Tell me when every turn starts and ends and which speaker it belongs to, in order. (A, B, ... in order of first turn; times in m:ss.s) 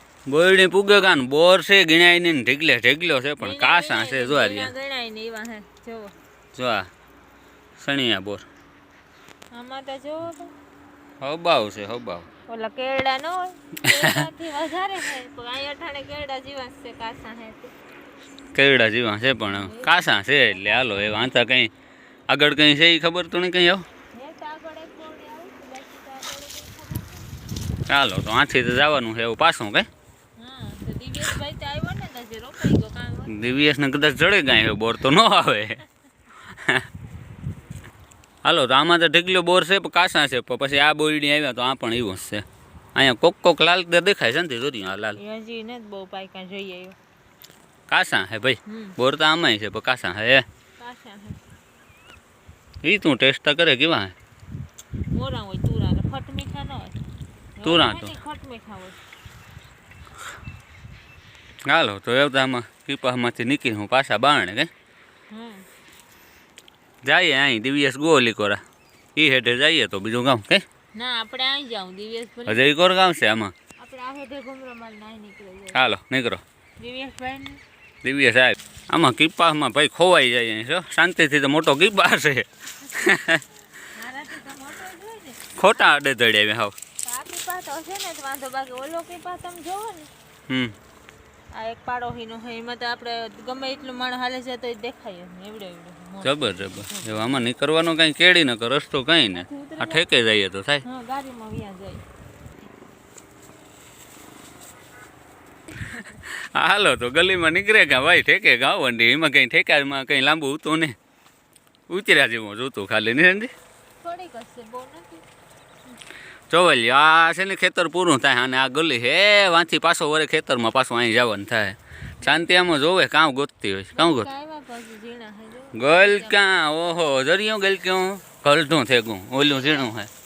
0:00.3-0:04.7 A
0:03.4-0:06.1 B
0:06.6-0:06.9 A
0:07.8-0:08.5 A
0:09.5-0:10.5 B
0:11.2-0:12.2 A
0:12.5-0:17.7 B
0:13.9-0:14.2 A
0:18.5-0:21.7 A
0:19.4-0:21.3 B
0:22.3-0:23.8 A
0:24.1-0:27.3 B
0:27.9-0:29.9 A
0:30.4-0:33.5 B
0:33.3-0:35.8 A
0:38.4-0:42.4 A
0:43.0-0:45.2 A
0:45.1-0:47.0 B
0:47.9-0:50.4 A
0:48.6-0:49.0 B
0:50.8-0:51.4 B
0:52.8-0:54.1 A
0:55.1-0:57.0 B
0:57.6-0:59.0 B
0:57.6-0:58.1 A
1:01.7-1:04.7 A
1:05.3-1:05.6 B
1:07.0-1:08.6 A
1:09.2-1:10.6 A
1:11.0-1:12.7 B
1:12.5-1:13.5 A
1:13.8-1:15.8 B
1:15.7-1:16.4 A
1:16.8-1:17.6 B
1:18.0-1:23.4 A
1:23.9-1:25.7 B
1:25.6-1:26.7 A
1:27.0-1:30.1 B
1:30.5-1:30.8 A
1:31.5-1:37.3 B
1:36.2-1:40.8 A
1:39.3-1:40.0 B
1:40.8-1:42.0 B
1:46.2-1:51.0 A
1:51.9-1:53.5 A
1:54.0-1:55.2 B
1:56.5-2:04.3 A
2:04.0-2:06.5 B
2:05.8-2:10.1 A
2:09.5-2:09.9 B